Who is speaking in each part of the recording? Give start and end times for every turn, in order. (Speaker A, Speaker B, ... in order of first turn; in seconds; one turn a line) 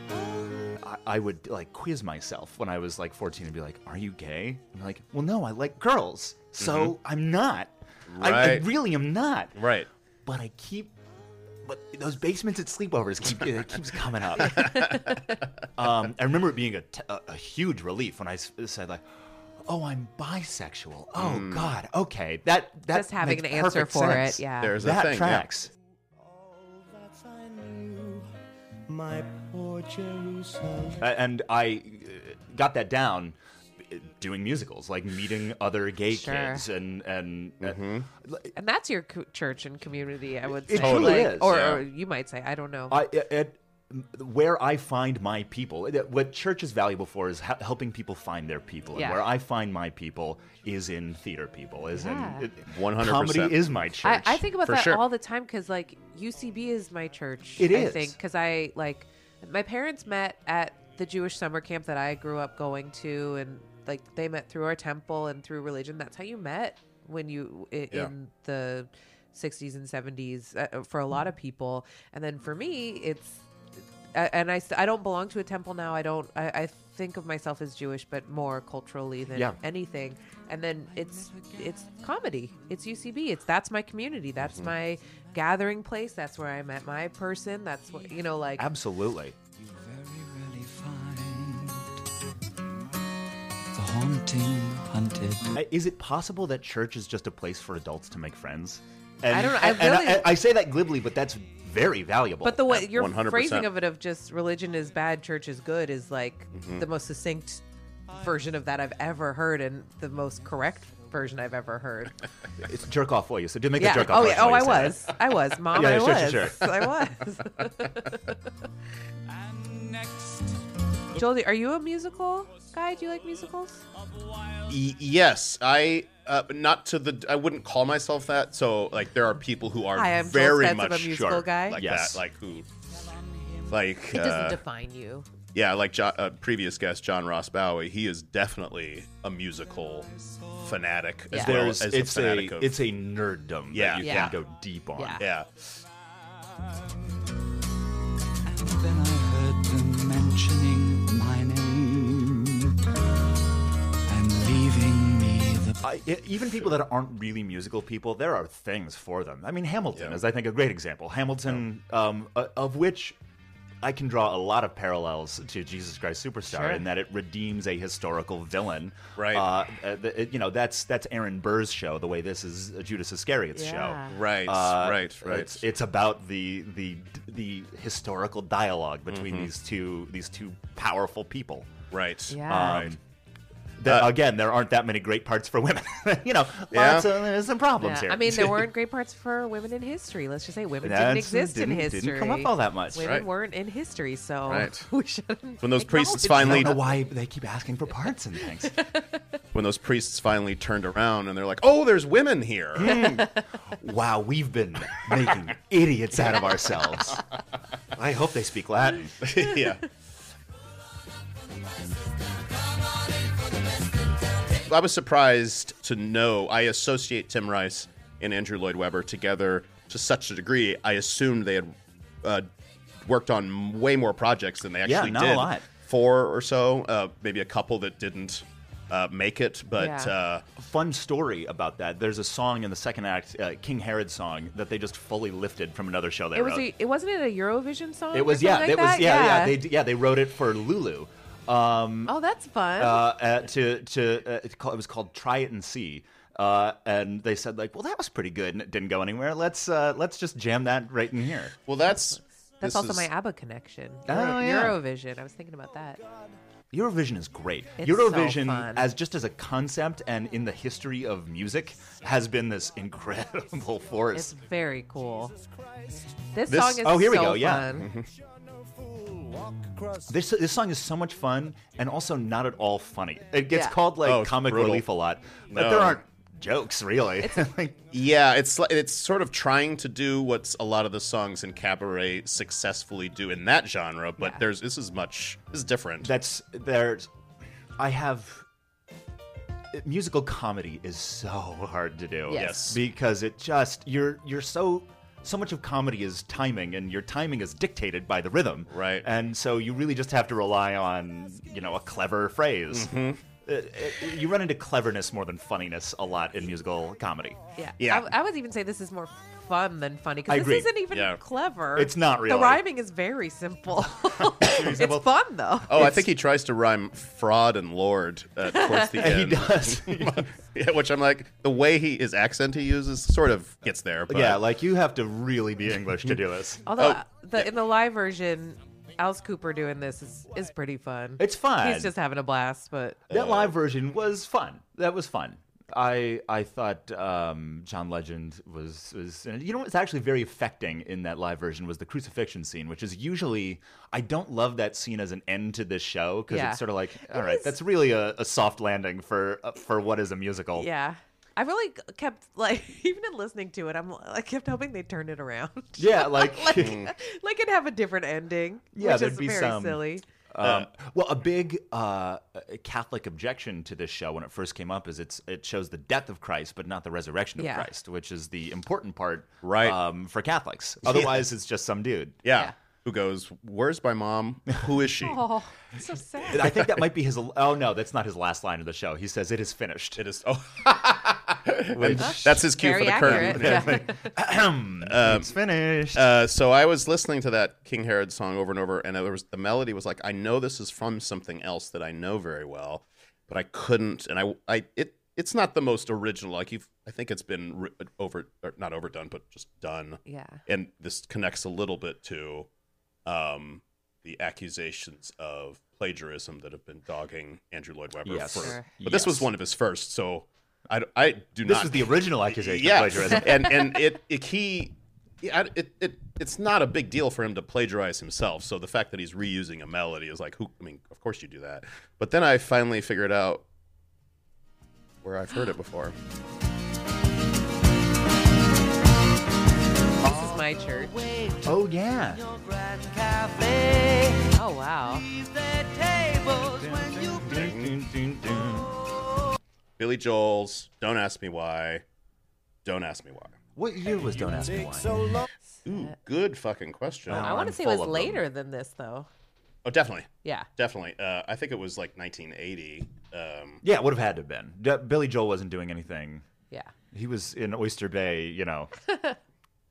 Speaker A: 0.8-9.7
Speaker B: 6.6-6.9
Speaker B: 8.1-8.7
Speaker B: 9.6-9.9
Speaker A: 10.2-10.9
Speaker A: 11.6-15.0
Speaker C: 14.6-15.3
Speaker B: 14.6-15.0
Speaker A: 15.8-19.0
Speaker A: 19.6-25.7
Speaker B: 21.2-21.7
Speaker C: 22.9-24.8
Speaker B: 24.6-25.5
Speaker D: 26.3-28.3
Speaker D: 28.9-31.0
Speaker A: 31.0-38.5
Speaker C: 36.1-36.6
Speaker B: 37.6-38.0
Speaker C: 38.5-43.0
Speaker A: 40.5-41.8
Speaker B: 40.7-41.8
Speaker A: 42.9-54.5
Speaker C: 48.9-49.3
Speaker C: 51.9-52.5
Speaker B: 52.7-53.7
Speaker C: 54.0-73.5
Speaker B: 54.6-55.0
Speaker A: 57.6-58.2
Speaker C: 74.1-88.7
Speaker A: 79.3-79.6
Speaker A: 88.6-89.4
Speaker E: 89.5-91.9
Speaker E: 93.7-95.6
Speaker A: 95.5-102.8
Speaker C: 99.3-100.4
Speaker C: 102.4-112.2
Speaker B: 102.7-103.7
Speaker B: 106.5-106.8
Speaker A: 112.6-116.9
Speaker C: 113.8-118.4
Speaker C: 121.1-123.8
Speaker B: 124.7-132.7
Speaker C: 129.9-131.9
Speaker A: 131.7-132.2
Speaker B: 133.7-134.6
Speaker C: 134.1-135.3
Speaker B: 135.5-140.1
Speaker B: 140.6-142.8
Speaker C: 141.3-141.6
Speaker A: 141.3-145.3
Speaker B: 143.7-144.3
Speaker C: 144.0-144.4
Speaker C: 144.9-145.2
Speaker B: 145.2-145.6
Speaker E: 148.4-152.7
Speaker E: 154.1-155.8
Speaker A: 155.8-163.2
Speaker B: 159.9-160.2
Speaker A: 163.8-181.7
Speaker C: 166.5-166.8
Speaker B: 169.2-169.5
Speaker C: 173.5-174.2
Speaker B: 174.1-175.6
Speaker B: 179.1-179.5
Speaker B: 181.9-182.9
Speaker C: 182.3-182.9
Speaker A: 182.4-183.0
Speaker A: 183.8-188.7
Speaker B: 183.8-184.1
Speaker B: 186.7-187.1
Speaker C: 187.8-196.9
Speaker A: 190.8-193.2
Speaker B: 192.9-193.3
Speaker B: 194.5-194.9
Speaker B: 195.6-196.8
Speaker A: 196.3-198.8
Speaker C: 198.7-199.1
Speaker B: 199.5-203.1
Speaker A: 202.8-207.2
Speaker C: 203.0-203.4
Speaker A: 207.9-209.3
Speaker B: 209.2-209.9
Speaker B: 214.6-222.5
Speaker B: 223.0-230.4
Speaker A: 224.8-225.7
Speaker C: 229.8-230.1
Speaker A: 230.6-236.7
Speaker C: 236.3-239.6
Speaker A: 238.1-242.2
Speaker C: 242.1-243.1
Speaker A: 242.8-251.6
Speaker B: 251.7-253.1
Speaker C: 251.9-256.0
Speaker A: 254.1-254.8
Speaker A: 256.7-264.4
Speaker C: 257.8-258.9
Speaker C: 264.1-265.3
Speaker D: 265.4-266.1
Speaker C: 266.3-267.9
Speaker B: 266.5-266.8
Speaker A: 266.6-267.8
Speaker B: 267.7-268.1
Speaker D: 268.8-270.1
Speaker A: 270.1-277.8
Speaker C: 273.5-273.8
Speaker B: 274.0-274.8
Speaker B: 275.5-276.0
Speaker B: 277.9-286.1
Speaker A: 286.0-287.1
Speaker A: 287.8-288.4
Speaker A: 289.7-307.4
Speaker C: 292.3-292.7
Speaker B: 292.3-292.8
Speaker B: 298.7-299.1
Speaker B: 302.7-303.2
Speaker C: 307.6-316.0
Speaker B: 307.8-308.1
Speaker A: 310.3-310.8
Speaker B: 310.9-311.2
Speaker A: 311.7-312.6
Speaker A: 314.2-315.1
Speaker B: 315.7-324.4
Speaker C: 318.5-318.9
Speaker A: 318.9-320.3
Speaker A: 324.1-326.6
Speaker C: 326.6-333.0
Speaker B: 326.7-327.5
Speaker A: 331.2-331.9
Speaker B: 333.1-333.5
Speaker A: 333.1-350.7
Speaker C: 346.3-347.5
Speaker C: 350.6-360.1
Speaker A: 355.8-356.9
Speaker B: 356.6-356.9
Speaker A: 358.7-372.2
Speaker B: 360.4-360.7
Speaker C: 367.4-367.7
Speaker B: 369.4-369.8
Speaker B: 370.9-371.1
Speaker B: 372.2-375.2
Speaker C: 375.0-376.5
Speaker A: 376.2-380.0
Speaker B: 376.3-376.7
Speaker B: 380.0-383.9
Speaker A: 381.7-386.1
Speaker C: 382.0-384.1
Speaker B: 384.8-385.4
Speaker B: 385.9-402.5
Speaker C: 400.1-400.4
Speaker B: 403.1-423.4
Speaker A: 408.0-409.3
Speaker C: 408.4-408.7
Speaker A: 411.4-413.7
Speaker B: 425.0-425.9
Speaker C: 430.0-431.1
Speaker D: 430.1-434.3
Speaker A: 431.4-432.2
Speaker C: 434.3-435.1
Speaker D: 434.9-437.6
Speaker A: 436.4-438.7
Speaker B: 437.4-437.7
Speaker B: 439.8-441.8
Speaker B: 442.6-443.3
Speaker A: 443.6-445.1
Speaker D: 444.3-445.3
Speaker B: 445.6-447.3
Speaker A: 447.1-448.2
Speaker C: 447.1-449.1
Speaker B: 449.6-453.6
Speaker A: 453.6-456.3
Speaker A: 456.9-458.7
Speaker C: 458.9-459.1